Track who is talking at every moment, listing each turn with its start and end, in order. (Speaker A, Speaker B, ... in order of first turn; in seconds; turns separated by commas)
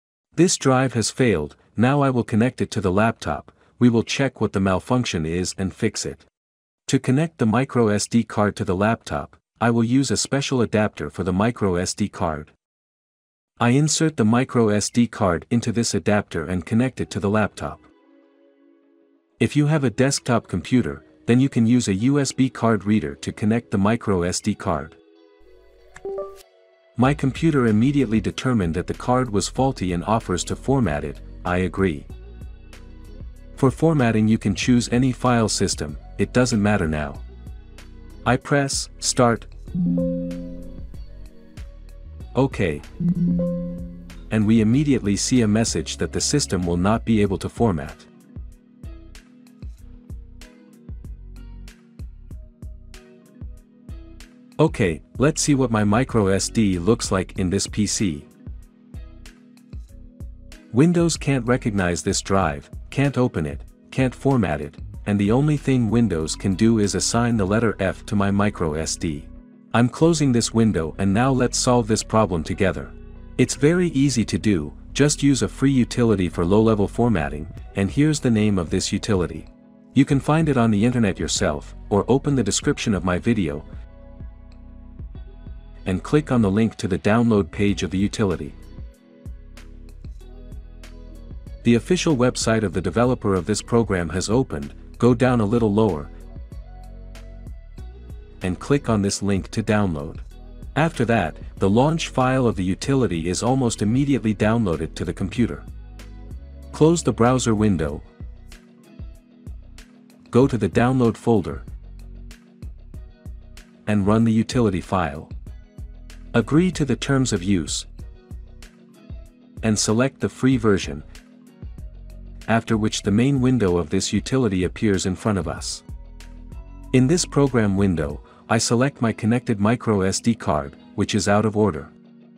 Speaker A: 0.3-6.3, Speaker A: 6.8-12.5, Speaker A: 13.6-17.9, Speaker A: 19.4-25.0, Speaker A: 26.9-32.1, Speaker A: 33.5-37.2, Speaker A: 38.2-39.5, Speaker A: 42.3-42.9, Speaker A: 44.3-48.1, Speaker A: 54.6-58.3, Speaker A: 60.7-83.7, Speaker A: 85.8-88.6, Speaker A: 91.6-96.1, Speaker A: 98.4-105.7, Speaker A: 106.7-108.0, Speaker A: 110.3-111.6, Speaker A: 113.8-115.3, Speaker A: 116.3-117.9, Speaker A: 119.6-121.0, Speaker A: 122.5-125.8, Speaker A: 126.9-131.9